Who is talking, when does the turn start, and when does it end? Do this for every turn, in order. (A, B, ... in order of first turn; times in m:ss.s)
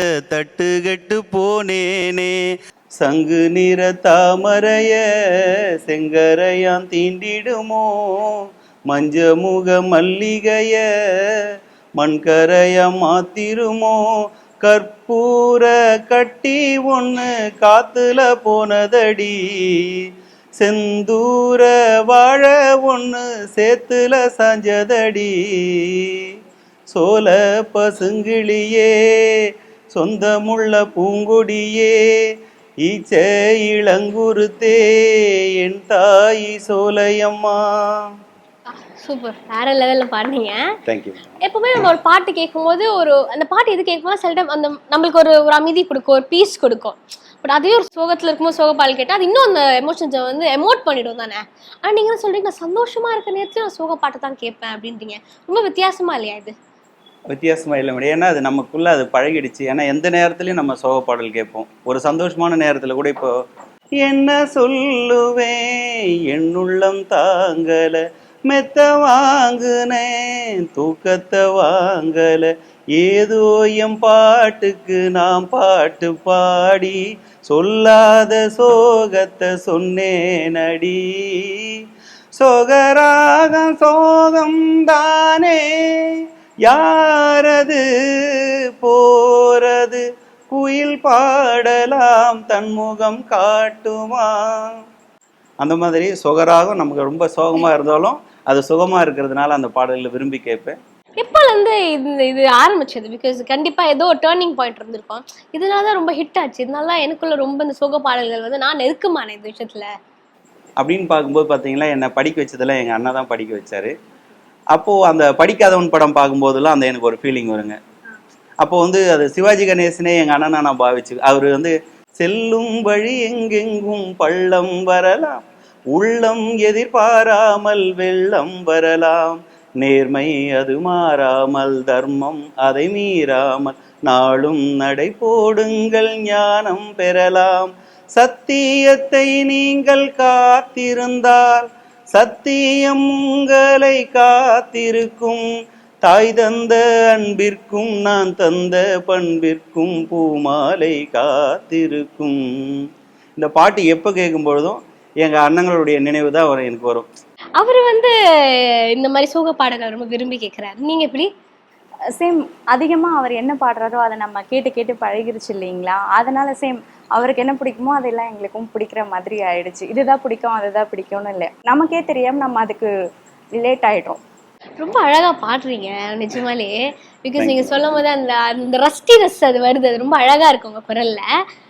0:00.3-0:02.4 A
0:03.0-0:05.0 A
0:05.8-0:11.4 A
0:12.0-0:26.3 A
0:26.9-0:38.1 A
0:38.8-0:40.6 B
0:40.9-0:41.4 A
0:41.4-0:56.5 B
0:57.3-1:03.3 A
1:04.0-1:21.8 A
1:22.3-1:34.8 A
1:35.6-1:40.8 A
1:41.2-1:49.9 B
1:50.8-1:53.9 A
1:54.7-1:57.8 A
1:58.6-2:25.5 A
2:26.0-2:32.9 A
2:33.4-2:37.1 A
2:37.6-2:41.3 B
2:42.2-2:52.9 C
2:53.6-2:54.2 C
2:54.8-3:01.2 B
2:57.4-2:58.0 A